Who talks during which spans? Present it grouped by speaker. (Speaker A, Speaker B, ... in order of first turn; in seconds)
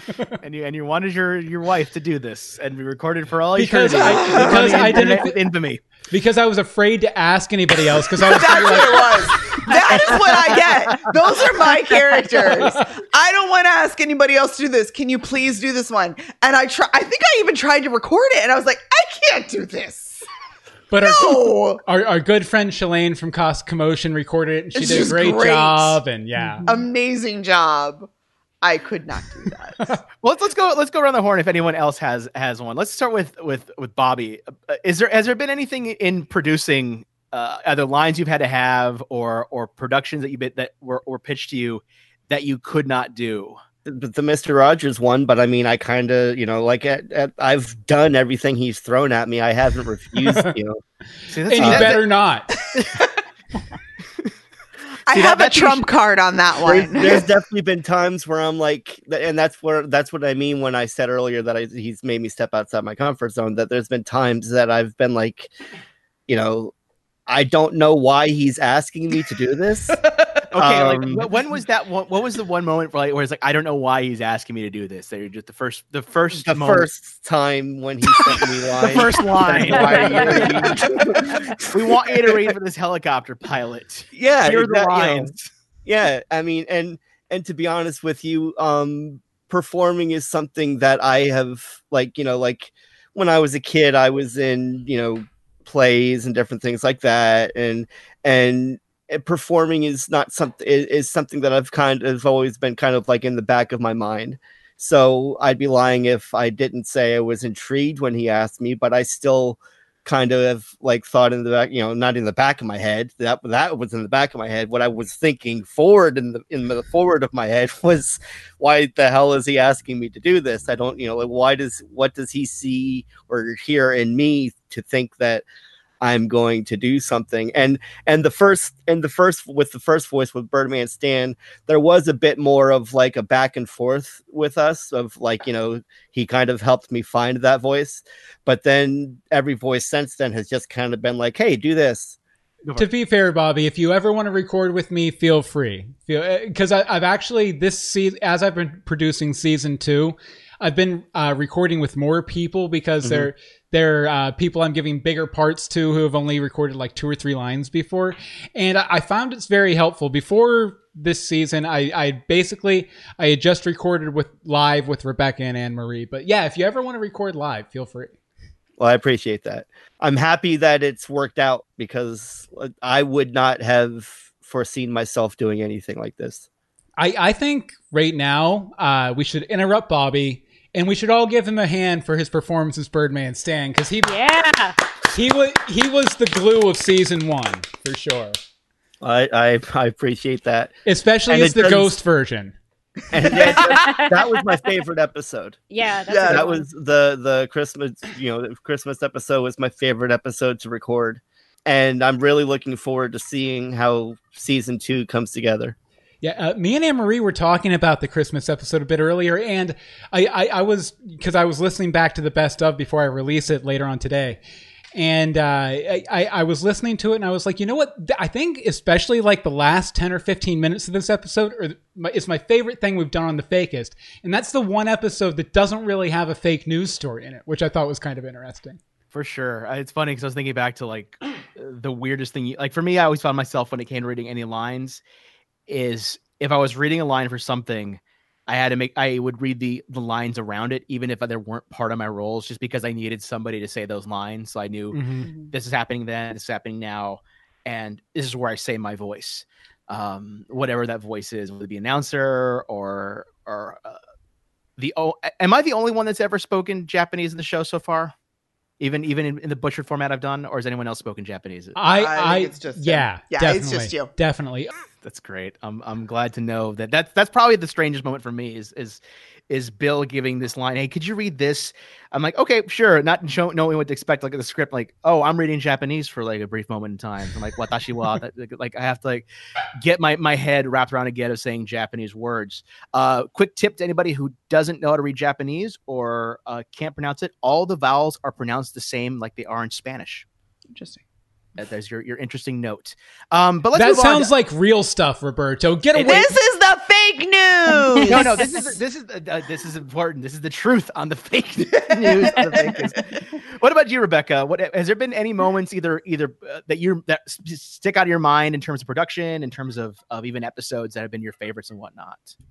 Speaker A: 0.4-5.8, 30.2-43.6, 51.3-52.0, 55.1-55.9, 70.5-76.9, 78.8-81.1, 81.6-85.5, 229.1-235.0, 235.7-254.0, 254.8-258.1, 258.8-261.8, 265.0-279.3, 279.8-290.2, 291.6-294.3, 298.1-312.3
Speaker B: 3.5-5.3, 6.1-10.2, 20.9-26.7, 51.5-52.5, 142.8-168.1, 177.0-184.2, 185.1-188.3, 190.8-192.5, 206.2-214.4, 214.9-228.8, 244.9-245.3, 261.8-264.7, 293.7-296.3
Speaker C: 4.0-5.2, 8.1-20.2, 21.0-21.8, 24.7-26.0, 26.6-28.1, 28.6-29.9, 55.1-57.3, 196.1-196.5, 245.2-245.5, 261.9-264.1, 290.7-291.0, 295.9-298.7, 301.9-303.1
Speaker D: 43.8-50.8, 51.6-52.0, 56.6-65.5, 66.3-66.7, 67.3-70.0, 70.5-71.2, 76.4-82.3, 84.2-85.3, 85.8-125.4, 126.0-142.2, 153.0-153.3, 168.8-176.4, 189.0-190.7, 191.3-191.9, 193.1-195.6, 196.3-205.8
Speaker E: 79.8-80.3, 184.0-184.8, 193.4-194.5, 195.7-196.6